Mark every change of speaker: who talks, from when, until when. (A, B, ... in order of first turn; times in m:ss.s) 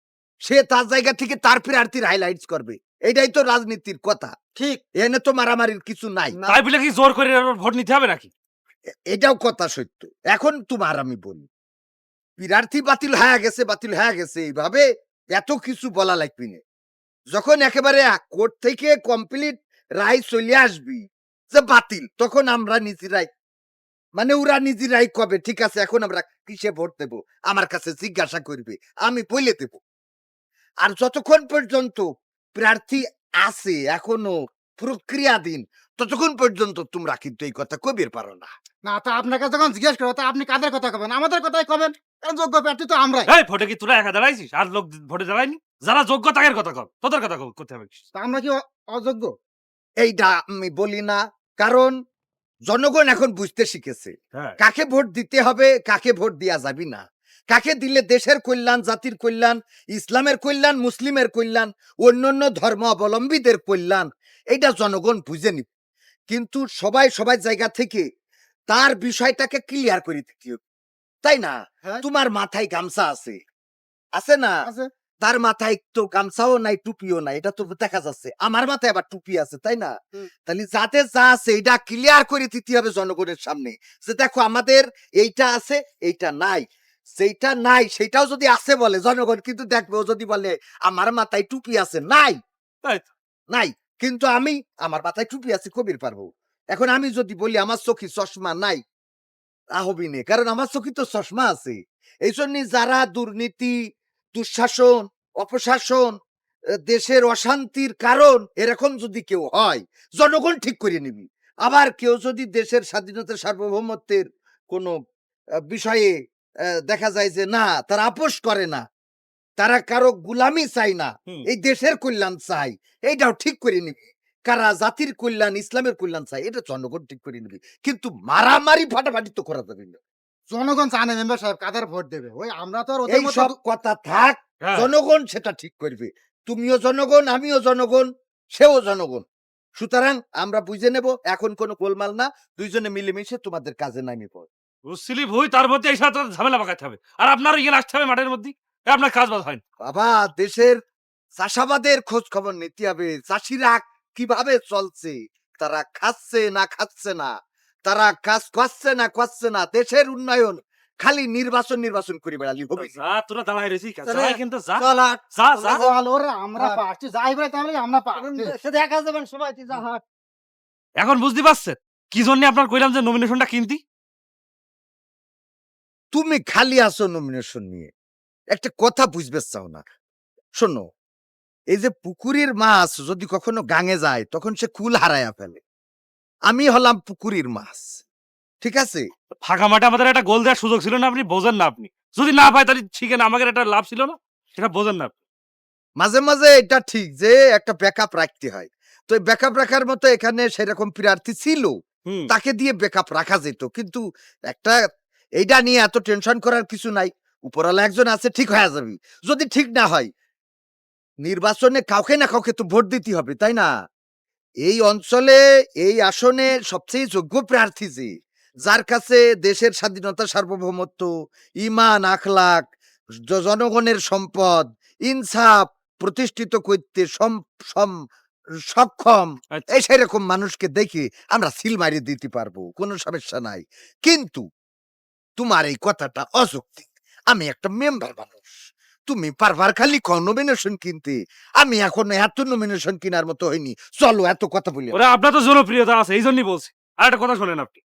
0:00.4-0:04.3 A
0:04.6-0:04.8 B
0:05.0-0:06.4 A
0:06.3-0:06.6 B
0:06.4-0:08.3 C
0:09.1-0:11.4 A
0:12.4-0:16.6 A
0:17.3-0:23.3 A
0:24.2-0:29.8 A
0:30.8-0:38.5 A
0:38.8-0:43.3 D
0:43.3-0:48.0 C
0:48.1-0:49.3 D
0:50.0-0:52.0 A
0:52.7-1:05.7 A
0:54.3-0:54.6 C
1:06.3-1:08.0 A
1:08.7-1:10.6 A
1:11.2-1:13.4 A
1:14.2-1:14.6 A
1:14.6-1:14.9 D
1:15.2-1:19.9 A
1:20.5-1:26.6 A
1:27.2-1:32.4 A
1:33.5-1:38.8 A
1:39.8-1:43.7 A
1:44.4-1:46.1 A
1:46.8-1:54.9 A
1:55.7-1:56.1 A
1:56.8-1:58.8 A
1:59.6-2:10.0 A
2:10.5-2:13.5 D
2:13.1-2:19.2 A
2:14.6-2:14.9 C
2:19.8-2:24.5 A
2:24.8-2:29.6 C
2:29.8-2:30.8 A
2:31.4-2:37.3 A
2:37.8-2:42.9 A
2:42.8-2:45.8 C
2:44.0-2:45.9 B
2:45.8-2:48.5 D
2:46.6-2:46.8 B
2:48.1-2:49.8 B
2:49.8-2:50.0 D
2:51.0-2:53.8 C
2:56.1-2:57.9 A
2:58.5-2:59.8 A
3:00.6-3:00.8 A
3:01.7-3:05.6 A
3:06.5-3:08.0 A
3:08.6-3:09.0 A
3:09.4-3:15.1 C
3:16.0-3:21.8 A
3:22.3-3:24.8 A
3:25.4-3:30.1 A
3:31.2-3:33.7 A
3:34.6-3:38.1 A
3:38.6-3:41.1 A
3:41.6-3:42.7 A
3:43.3-3:48.0 A
3:48.7-3:54.4 A
3:55.4-4:05.0 A
4:04.9-4:07.8 C